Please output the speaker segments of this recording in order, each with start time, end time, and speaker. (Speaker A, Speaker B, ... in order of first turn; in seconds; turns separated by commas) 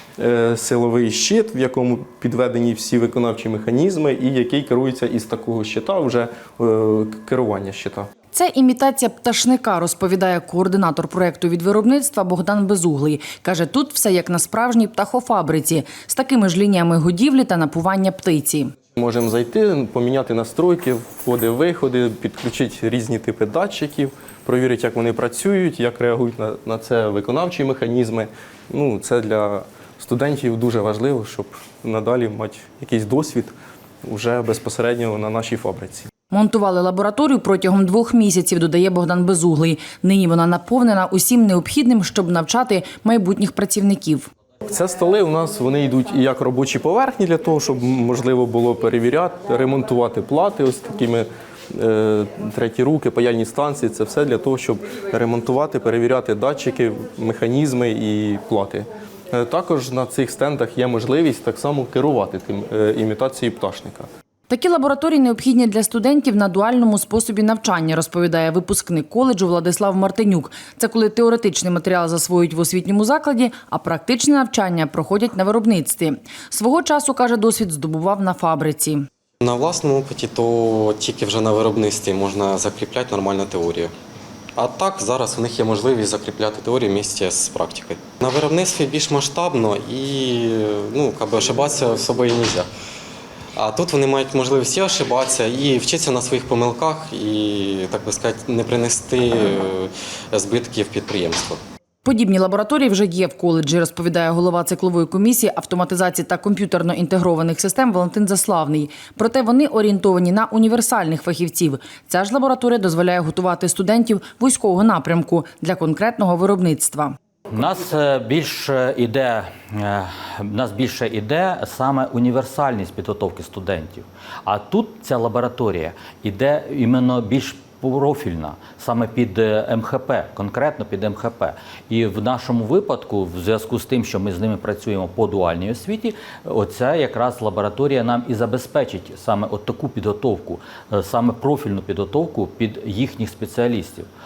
Speaker A: 0.2-8.1, Speaker B: 8.3-18.7, Speaker A: 18.9-36.1, Speaker B: 36.3-44.3, Speaker A: 44.7-64.1, Speaker B: 64.5-79.0, Speaker C: 79.4-83.9, Speaker C: 84.6-92.7, Speaker C: 93.5-101.6, Speaker B: 102.0-117.2, Speaker D: 117.5-144.1